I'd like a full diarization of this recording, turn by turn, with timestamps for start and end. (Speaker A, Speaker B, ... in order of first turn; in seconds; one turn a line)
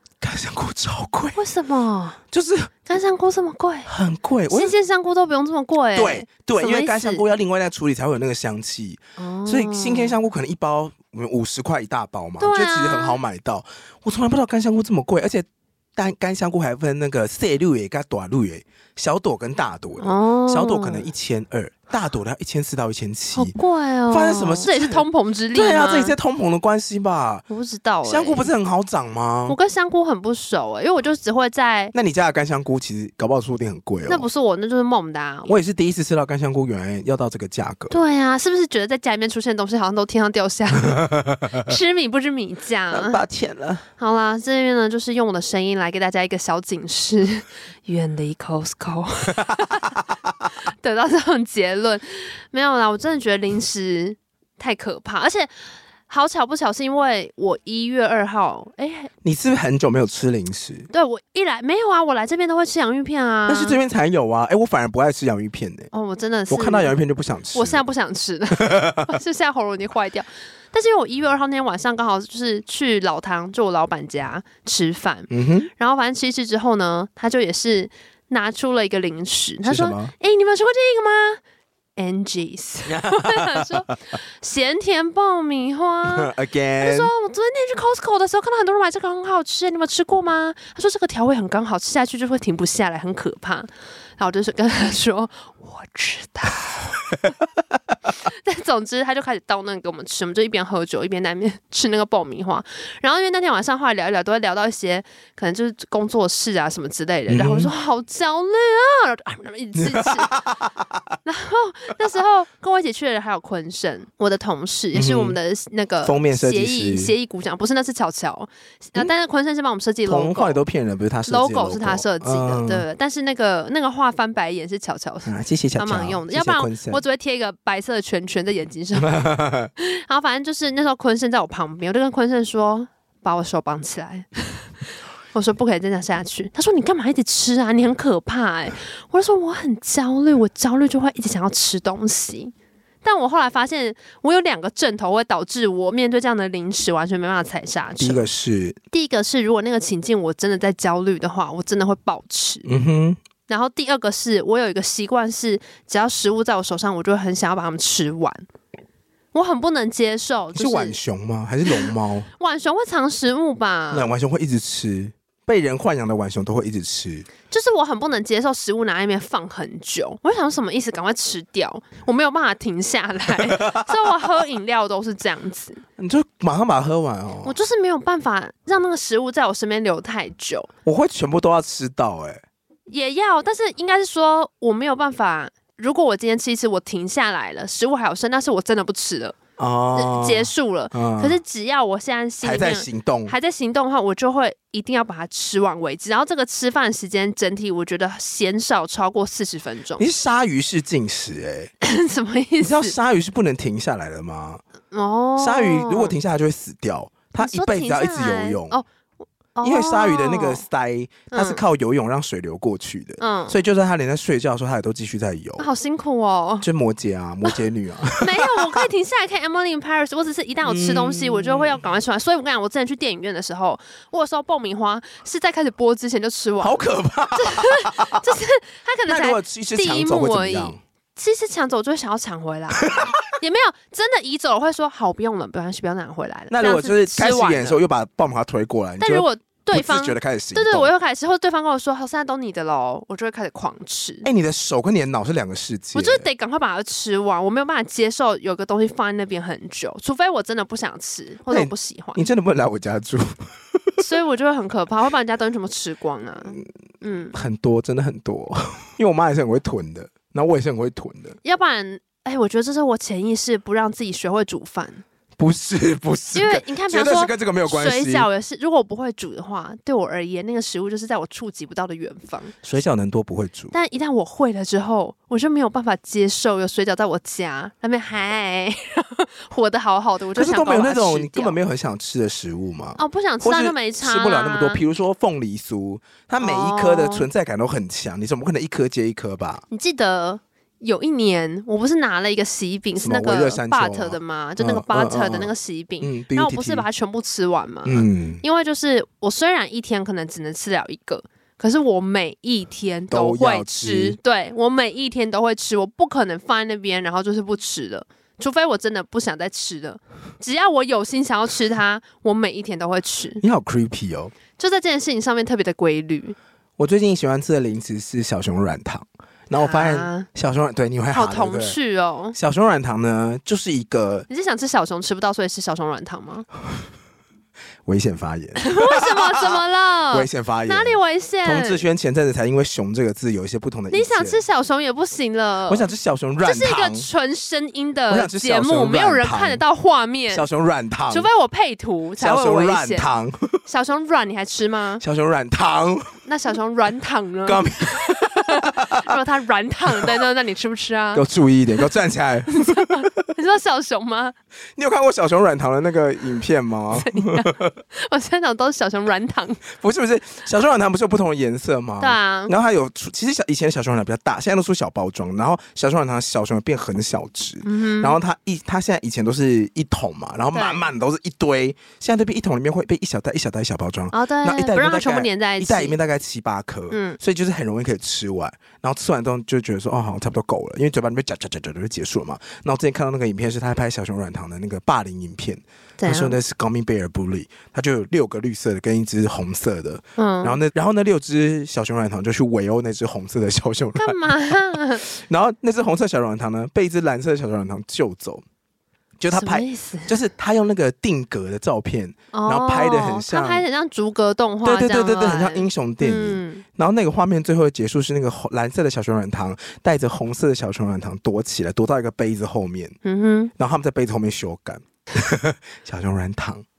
Speaker A: 0.2-1.4
Speaker B: 1.4-2.2
Speaker A: 2.3-2.7
Speaker B: 2.9-3.9
Speaker A: 3.9-4.7
Speaker B: 4.5-7.2
Speaker A: 6.0-23.6
Speaker B: 9.2-10.2
Speaker B: 12.4-13.2
Speaker B: 20.0-21.1
Speaker B: 23.3-26.2
Speaker A: 24.1-27.4
Speaker B: 27.5-28.5
Speaker A: 28.0-29.6
Speaker B: 29.5-31.9
Speaker A: 31.9-34.3
Speaker B: 34.1-35.6
Speaker A: 35.5-38.0
Speaker B: 37.9-41.0
Speaker A: 40.9-41.7
Speaker B: 41.6-43.2
Speaker A: 42.9-43.9
Speaker B: 44.0-50.0
Speaker B: 50.6-55.5
Speaker B: 56.1-59.1
Speaker A: 59.2-60.9
Speaker B: 60.9-63.8
Speaker A: 63.5-65.9
Speaker B: 65.9-66.9
Speaker A: 66.5-67.8
Speaker B: 67.5-81.4
Speaker A: 68.6-69.1
Speaker A: 75.3-75.7
Speaker A: 79.6-80.1
Speaker B: 82.0-97.0
Speaker A: 82.9-83.8
Speaker A: 86.1-87.1
Speaker B: 98.2-110.4
Speaker A: 107.3-107.7
Speaker A: 109.8-111.0
Speaker B: 111.2-120.6
Speaker A: 114.9-115.4
Speaker A: 116.0-117.1
Speaker A: 120.1-122.9
Speaker B: 121.3-129.2
Speaker A: 125.3-127.0
Speaker A: 129.0-129.7
Speaker B: 129.8-134.7
Speaker B: 135.3-148.3
Speaker A: 148.0-148.8
Speaker B: 148.9-152.7
Speaker A: 152.7-153.2
Speaker B: 153.5-158.4
Speaker B: 159.3-161.0
Speaker A: 160.5-162.3
Speaker B: 161.7-164.1
Speaker A: 163.9-167.3
Speaker B: 167.5-175.8
Speaker A: 173.6-173.9
Speaker A: 176.0-177.5
Speaker B: 177.4-180.7
Speaker A: 180.8-182.4
Speaker B: 182.9-189.4
Speaker A: 189.6-191.4
Speaker B: 189.9-200.1
Speaker A: 192.4-193.3
Speaker A: 200.0-201.7
Speaker B: 201.8-203.0
Speaker A: 202.6-204.6
Speaker B: 204.9-206.2
Speaker A: 205.4-208.8
Speaker B: 207.4-208.9
Speaker B: 209.6-210.6
Speaker A: 209.6-215.7
Speaker B: 211.3-211.6
Speaker B: 213.2-213.6
Speaker B: 215.6-216.7
Speaker A: 216.6-218.8
Speaker B: 218.2-226.8
Speaker A: 220.7-221.8
Speaker A: 226.6-228.3
Speaker B: 227.3-237.8
Speaker A: 229.1-230.8
Speaker A: 232.8-233.1
Speaker A: 236.5-240.9
Speaker B: 239.0-244.3
Speaker A: 244.2-246.3
Speaker B: 245.9-252.2
Speaker A: 251.5-254.0
Speaker B: 254.0-257.4
Speaker A: 257.3-261.4
Speaker B: 261.4-265.0
Speaker A: 265.4-268.3
Speaker B: 266.3-272.6
Speaker A: 272.6-273.7
Speaker B: 273.7-281.6
Speaker A: 280.4-289.6
Speaker B: 283.0-284.8
Speaker B: 286.4-287.3
Speaker B: 289.7-313.4
Speaker A: 293.0-296.9
Speaker A: 297.9-298.4
Speaker A: 303.1-304.2
Speaker A: 313.4-314.3
Speaker B: 314.6-316.4
Speaker A: 316.8-321.8
Speaker B: 319.6-320.3
Speaker B: 321.1-322.4
Speaker A: 322.3-324.3
Speaker B: 324.3-326.5
Speaker A: 327.9-329.6
Speaker B: 328.6-331.8
Speaker A: 330.1-334.4
Speaker B: 333.9-335.9
Speaker A: 335.7-337.1
Speaker B: 336.4-340.5
Speaker A: 338.1-339.6
Speaker A: 340.3-341.3
Speaker B: 341.1-343.1
Speaker A: 342.2-343.6
Speaker B: 343.7-345.0
Speaker A: 345.0-346.2
Speaker B: 346.2-351.3
Speaker A: 347.5-349.1
Speaker A: 351.1-353.1
Speaker B: 352.5-354.4
Speaker A: 354.8-357.7
Speaker B: 356.9-359.6
Speaker A: 359.7-398.4
Speaker B: 362.0-362.5
Speaker B: 367.6-368.2
Speaker B: 370.5-370.9
Speaker B: 374.1-376.0
Speaker B: 376.9-377.2
Speaker B: 386.0-386.4
Speaker B: 390.2-390.6
Speaker B: 394.0-395.1
Speaker A: 399.2-403.6
Speaker B: 399.3-400.1
Speaker B: 402.3-406.6
Speaker A: 404.6-413.0
Speaker B: 413.1-413.5
Speaker A: 413.6-416.7